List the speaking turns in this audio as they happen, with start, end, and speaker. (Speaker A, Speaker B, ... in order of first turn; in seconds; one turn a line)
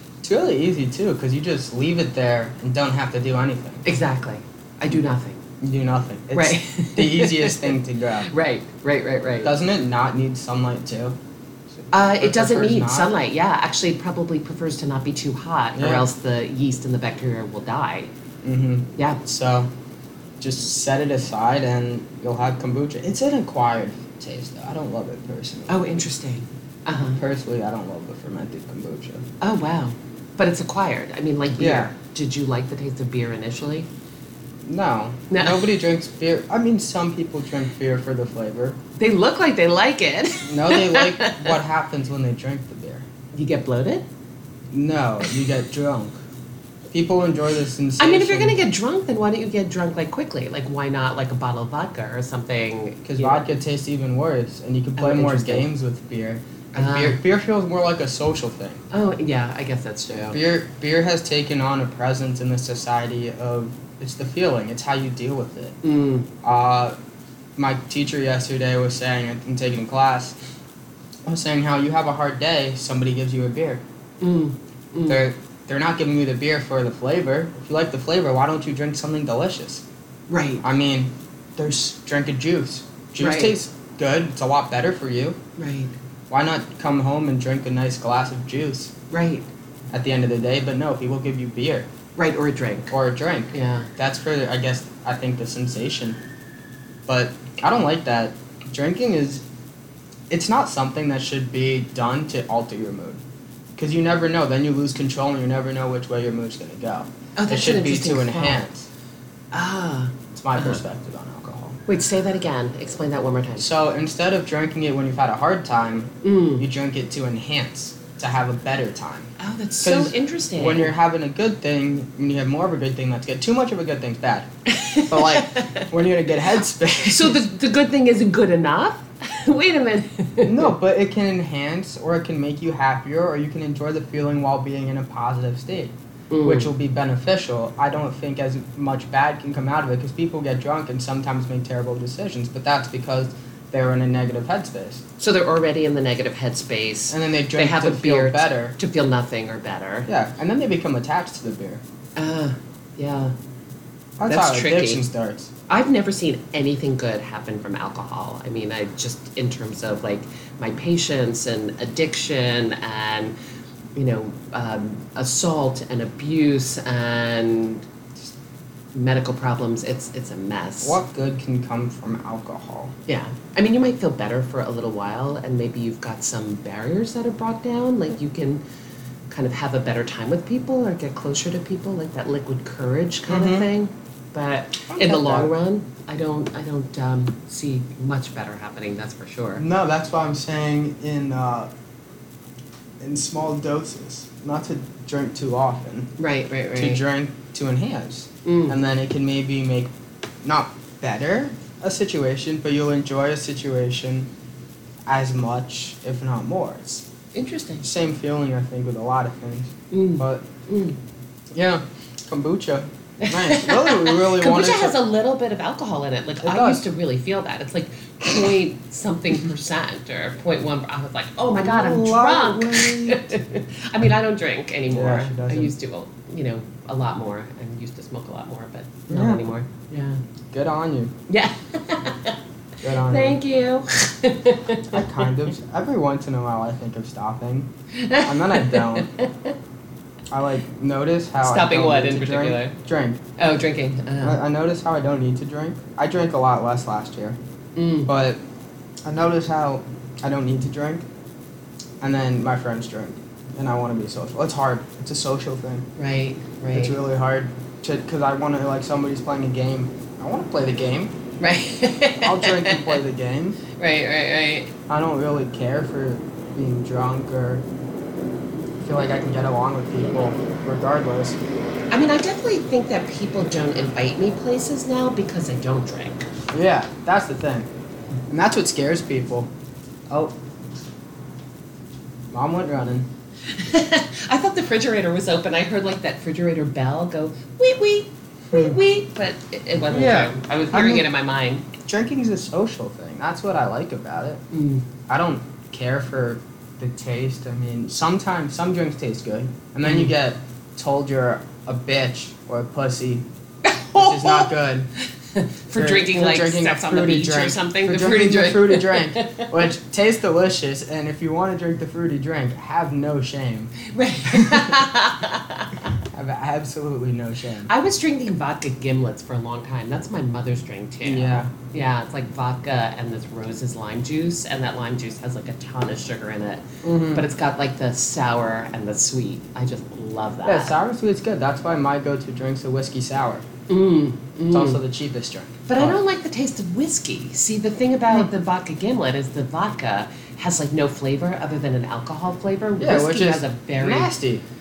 Speaker A: 0.2-3.9
Speaker B: 3.9-5.4
Speaker A: 5.6-8.3
Speaker B: 6.3-9.5
Speaker A: 9.4-11.2
Speaker A: 11.8-13.1
Speaker B: 11.9-18.1
Speaker A: 15.8-16.1
Speaker A: 18.4-19.7
Speaker A: 20.4-25.8
Speaker B: 25.7-27.2
Speaker A: 27.2-29.2
Speaker B: 29.4-33.9
Speaker A: 31.6-31.9
Speaker A: 34.6-38.8
Speaker B: 35.3-35.7
Speaker B: 39.0-41.6
Speaker A: 40.5-43.1
Speaker B: 43.3-44.1
Speaker A: 44.7-46.2
Speaker A: 46.9-48.6
Speaker B: 48.0-53.5
Speaker A: 53.0-58.8
Speaker B: 55.0-55.7
Speaker B: 56.8-57.2
Speaker B: 58.9-60.4
Speaker A: 60.3-65.8
Speaker B: 65.8-66.3
Speaker A: 66.4-66.9
Speaker A: 67.6-70.4
Speaker A: 71.3-73.8
Speaker B: 74.2-75.3
Speaker A: 75.1-79.8
Speaker B: 80.3-80.6
Speaker A: 80.6-85.4
Speaker B: 83.2-83.6
Speaker B: 85.6-85.9
Speaker A: 86.3-88.9
Speaker B: 89.1-89.5
Speaker A: 89.9-91.9
Speaker B: 92.2-92.9
Speaker A: 92.9-96.2
Speaker B: 93.5-93.9
Speaker A: 97.1-99.4
Speaker A: 100.3-103.2
Speaker A: 103.8-108.9
Speaker B: 107.4-108.7
Speaker B: 109.5-110.8
Speaker A: 110.3-111.8
Speaker B: 111.9-113.7
Speaker A: 113.6-119.3
Speaker B: 116.2-116.7
Speaker B: 119.4-120.9
Speaker A: 119.8-127.4
Speaker B: 124.7-125.9
Speaker B: 127.1-130.7
Speaker A: 130.4-135.9
Speaker B: 136.3-136.7
Speaker A: 136.4-145.0
Speaker B: 145.2-150.1
Speaker A: 147.1-148.8
Speaker A: 150.1-151.8
Speaker B: 152.2-153.3
Speaker A: 154.2-155.5
Speaker B: 154.3-155.1
Speaker B: 155.7-163.3
Speaker B: 163.9-167.9
Speaker B: 168.9-171.0
Speaker A: 170.8-172.9
Speaker B: 173.1-178.6
Speaker B: 179.3-189.6
Speaker A: 183.3-183.7
Speaker A: 184.9-185.5
Speaker A: 189.6-191.7
Speaker A: 193.0-196.1
Speaker B: 196.2-197.0
Speaker A: 196.8-199.9
Speaker B: 198.4-198.8
Speaker A: 200.4-204.3
Speaker A: 205.1-207.1
Speaker B: 207.3-207.8
Speaker A: 207.8-210.5
Speaker B: 209.9-211.0
Speaker A: 211.5-215.0
Speaker B: 213.2-230.2
Speaker A: 216.4-216.8
Speaker A: 221.6-223.4
Speaker A: 224.9-225.7
Speaker A: 229.1-229.4
Speaker A: 230.5-231.1
Speaker B: 231.3-232.4
Speaker A: 232.8-233.4
Speaker B: 232.9-235.3
Speaker A: 234.9-237.7
Speaker B: 237.9-239.6
Speaker A: 238.2-239.1
Speaker A: 240.3-243.2
Speaker B: 241.4-242.7
Speaker B: 243.4-244.4
Speaker A: 244.2-247.4
Speaker B: 247.8-248.1
Speaker A: 248.1-248.4
Speaker A: 249.1-251.1
Speaker A: 252.0-255.9
Speaker B: 256.0-257.0
Speaker A: 256.7-261.1
Speaker B: 261.4-263.0
Speaker A: 262.2-263.6
Speaker B: 263.8-264.7
Speaker A: 264.9-267.6
Speaker A: 268.8-271.4
Speaker B: 271.9-276.3
Speaker A: 276.5-277.7
Speaker A: 278.3-279.5
Speaker A: 280.1-280.4
Speaker A: 282.3-283.1
Speaker B: 283.5-291.7
Speaker A: 288.5-288.8
Speaker A: 289.9-291.1
Speaker A: 291.9-294.4
Speaker B: 294.5-294.9
Speaker A: 295.1-303.2
Speaker B: 299.9-300.1
Speaker B: 303.6-304.5
Speaker A: 303.9-304.9
Speaker B: 305.0-309.5
Speaker A: 305.7-314.9
Speaker B: 313.8-315.9
Speaker A: 315.9-317.7
Speaker B: 317.7-330.8
Speaker A: 321.0-321.5
Speaker A: 326.8-327.3
Speaker A: 330.4-333.4
Speaker B: 333.7-334.8
Speaker A: 334.5-336.0
Speaker B: 335.7-344.1
Speaker A: 342.8-344.4